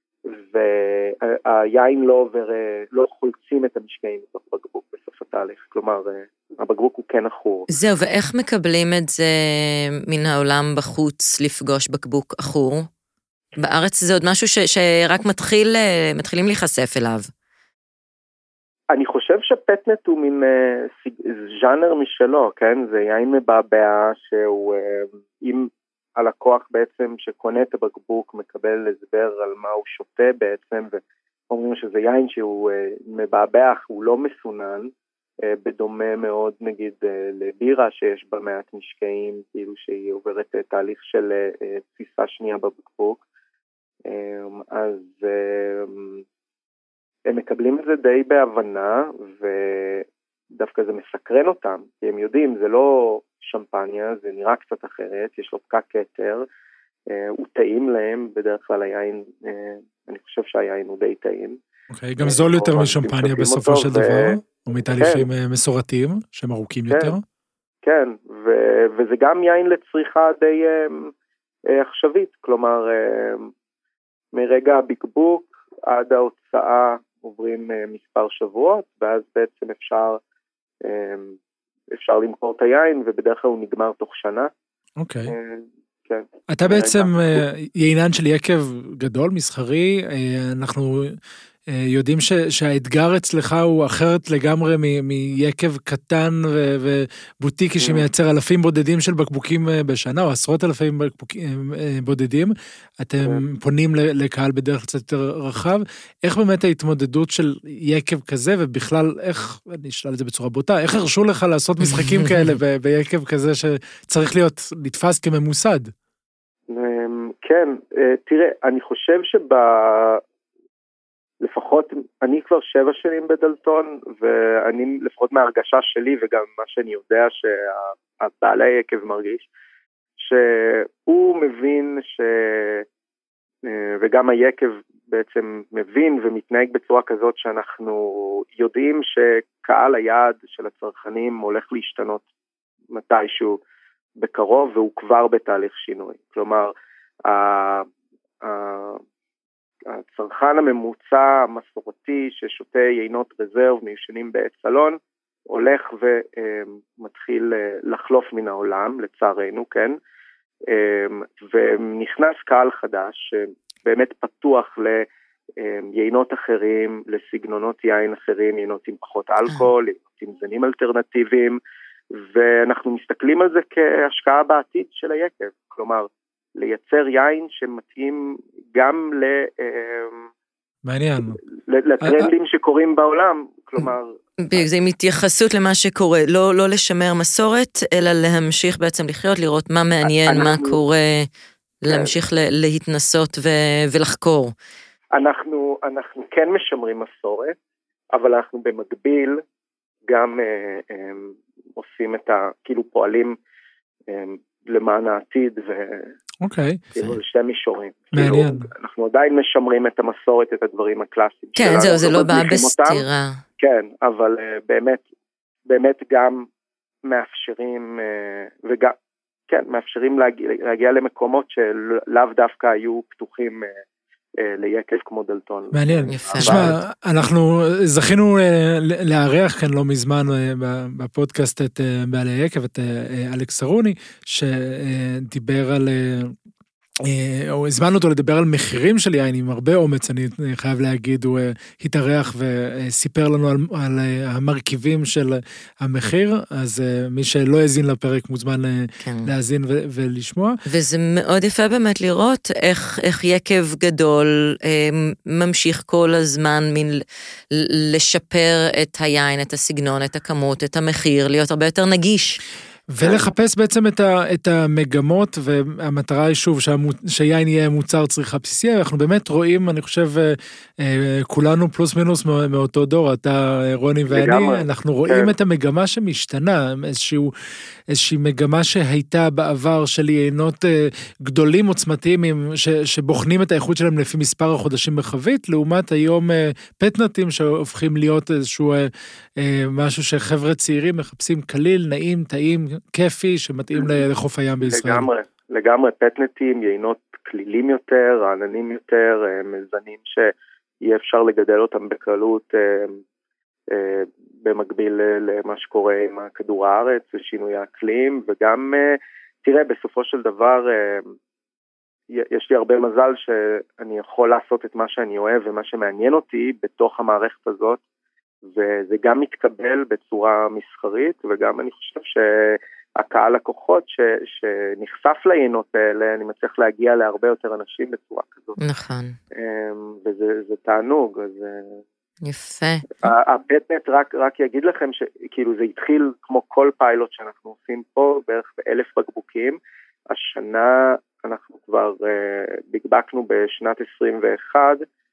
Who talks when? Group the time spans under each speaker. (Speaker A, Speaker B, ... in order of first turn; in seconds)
Speaker A: 0.3-7.7, 18.9-34.9, 35.5-43.2, 44.0-46.2, 47.3-56.4, 57.1-61.6, 62.2-64.4, 64.9-65.2, 66.9-67.1, 67.8-71.1, 71.7-73.5, 74.3-80.2, 80.8-81.3, 81.9-84.5, 85.3-87.4, 97.8-98.0, 116.7-120.2, 121.4-129.5, 130.2-132.8, 133.7-142.2, 142.9-143.6, 144.2-146.7, 147.3-147.9, 148.4-149.0, 149.9-155.0, 155.5-160.0, 160.7-165.1, 165.6-171.6, 172.1-180.3, 181.7-184.7, 190.1-190.8, 191.9-192.1, 195.2-197.5, 198.1-199.4, 200.1-203.3, 204.1-206.1, 206.9-213.0, 213.6-215.0, 215.7-216.4, 217.1-218.9, 219.5-223.7, 224.4-226.7, 263.0-263.3, 274.1-275.3, 293.7-294.0, 294.6-300.3, 300.8-303.0, 303.7-311.1, 312.1-317.8, 318.5-328.6, 329.3-331.8, 333.0-344.8
Speaker B: 7.7-12.8, 13.6-17.3, 111.8-112.6, 184.4-191.3, 191.8-194.5, 211.6-213.4, 226.1-226.7, 249.0-249.3, 250.7-262.4, 328.6-329.2, 332.2-332.9
Speaker C: 61.9-67.2, 85.0-85.3, 86.5-91.2, 91.7-115.9, 180.8-181.4, 182.0-182.3, 206.4-207.1, 208.1-208.7, 225.7-236.3, 237.0-250.6, 262.9-277.3, 277.9-295.1